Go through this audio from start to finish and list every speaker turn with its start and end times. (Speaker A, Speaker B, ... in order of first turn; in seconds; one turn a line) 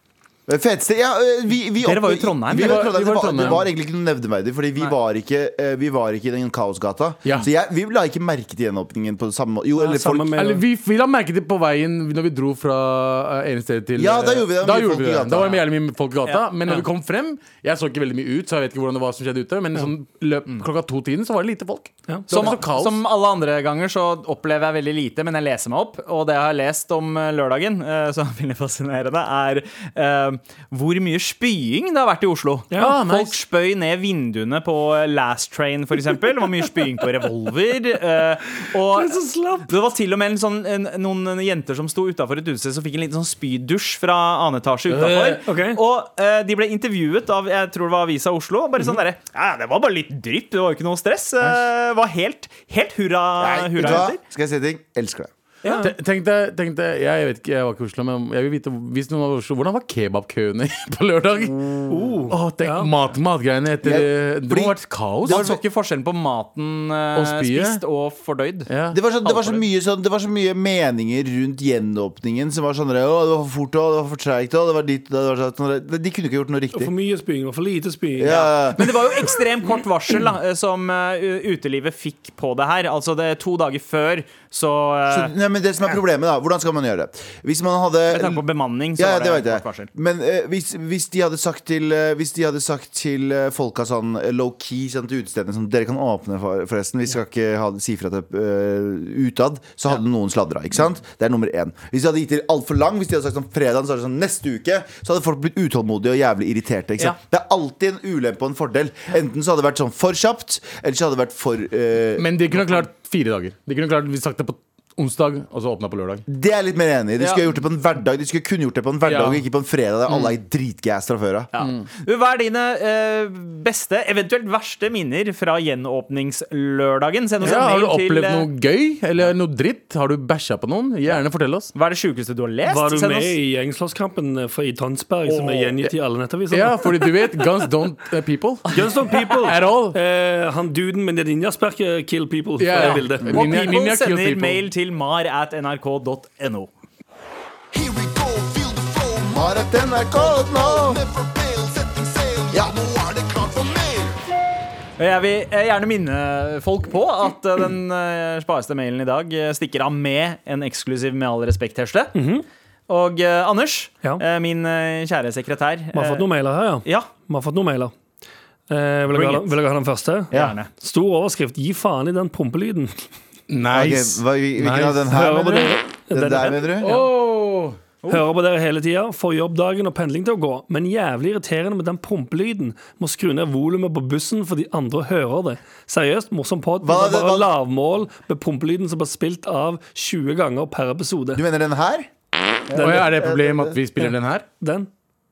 Speaker A: 0.5-10.4
Speaker B: 1.8-2.9
Speaker C: 2.5-3.6
Speaker D: 9.8-10.6
Speaker C: 10.3-23.0
Speaker A: 13.9-15.6
Speaker B: 16.2-16.8
Speaker D: 22.1-22.5
Speaker B: 22.3-54.2
Speaker D: 32.7-33.0
Speaker C: 32.8-33.4
Speaker D: 38.9-39.7
Speaker C: 44.9-45.4
Speaker D: 45.4-45.8
Speaker A: 53.4-55.3
Speaker B: 55.6-55.9
Speaker D: 55.6-55.9
Speaker C: 55.8-61.7
Speaker D: 61.9-62.9
Speaker C: 62.3-65.5
Speaker A: 63.8-65.6
Speaker B: 65.2-68.7
Speaker C: 67.1-67.8
Speaker C: 68.7-69.0
Speaker A: 68.9-76.9
Speaker B: 69.2-69.6
Speaker D: 76.7-78.4
Speaker A: 78.2-78.9
Speaker B: 78.2-85.3
Speaker A: 85.1-112.8
Speaker B: 88.1-89.9
Speaker C: 112.2-116.2
Speaker A: 116.3-121.5
Speaker C: 119.0-119.4
Speaker B: 121.5-128.4
Speaker C: 121.6-121.9
Speaker C: 127.4-131.7
Speaker B: 131.7-133.3
Speaker D: 132.7-137.1
Speaker B: 135.2-135.7
Speaker C: 136.5-140.0
Speaker D: 138.7-143.4
Speaker C: 142.6-144.6
Speaker B: 142.8-146.7
Speaker E: 147.7-149.5
Speaker A: 149.2-151.1
Speaker E: 150.2-153.9
Speaker A: 152.5-152.9
Speaker B: 155.0-162.1
Speaker D: 162.1-162.4
Speaker B: 162.9-166.2
Speaker D: 165.9-167.9
Speaker B: 166.8-167.1
Speaker D: 168.7-173.0
Speaker B: 169.1-169.6
Speaker B: 170.3-170.7
Speaker C: 173.5-175.1
Speaker A: 173.7-176.9
Speaker D: 175.1-177.1
Speaker C: 176.8-177.8
Speaker D: 178.1-191.4
Speaker A: 186.8-187.5
Speaker A: 191.3-192.1
Speaker A: 192.7-193.8
Speaker D: 192.7-193.1
Speaker C: 192.8-194.4
Speaker D: 194.6-194.9